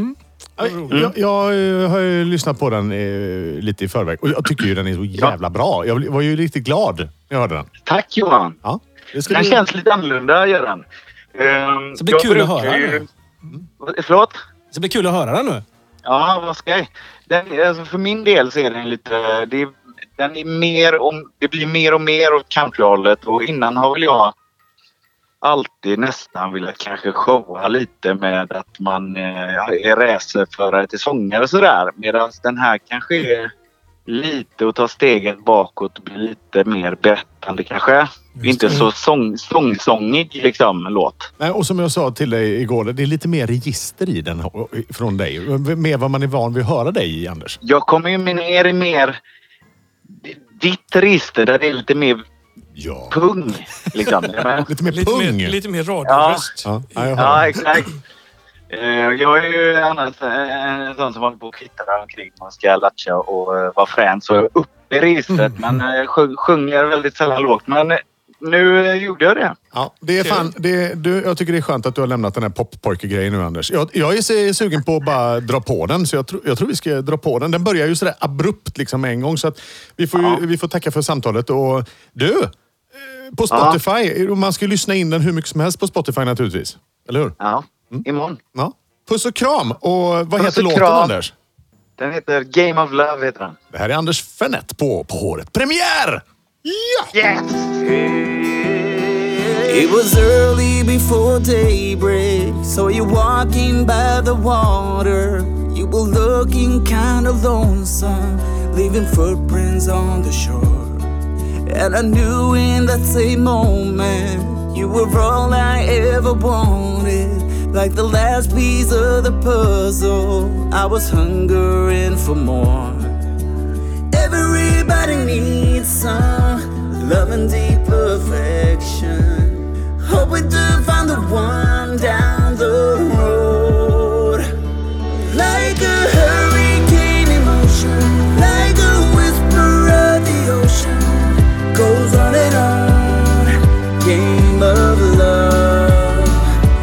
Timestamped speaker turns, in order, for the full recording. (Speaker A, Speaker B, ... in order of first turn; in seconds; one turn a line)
Speaker A: 0.6-7.7
Speaker B: 0.6-1.1
Speaker C: 7.8-8.6
Speaker A: 8.6-9.6
Speaker C: 9.2-10.8
Speaker C: 11.3-13.1
Speaker D: 11.9-13.0
Speaker C: 13.8-14.4
Speaker D: 14.7-15.6
Speaker C: 16.1-24.3
Speaker C: 25.4-33.5
Speaker C: 34.1-41.3
Speaker A: 41.4-47.6
Speaker C: 47.6-49.2
Speaker C: 50.1-52.2
Speaker A: 52.8-53.2
Speaker C: 53.1-54.7
Speaker A: 54.6-55.6
Speaker B: 54.9-57.2
Speaker C: 56.0-56.5
Speaker A: 56.6-57.6
Speaker C: 57.2-58.0
Speaker C: 58.7-69.5
Speaker A: 69.7-87.3
Speaker B: 70.2-70.5
Speaker C: 80.1-80.4
Speaker C: 83.5-83.8
Speaker C: 87.4-88.4
Speaker A: 87.9-91.3
Speaker C: 90.4-91.1
Speaker C: 92.0-93.6
Speaker A: 93.7-97.1
Speaker C: 97.1-97.8
Speaker E: 97.8-111.1
Speaker E: 111.7-123.2
Speaker E: 124.1-134.5
Speaker E: 135.1-146.5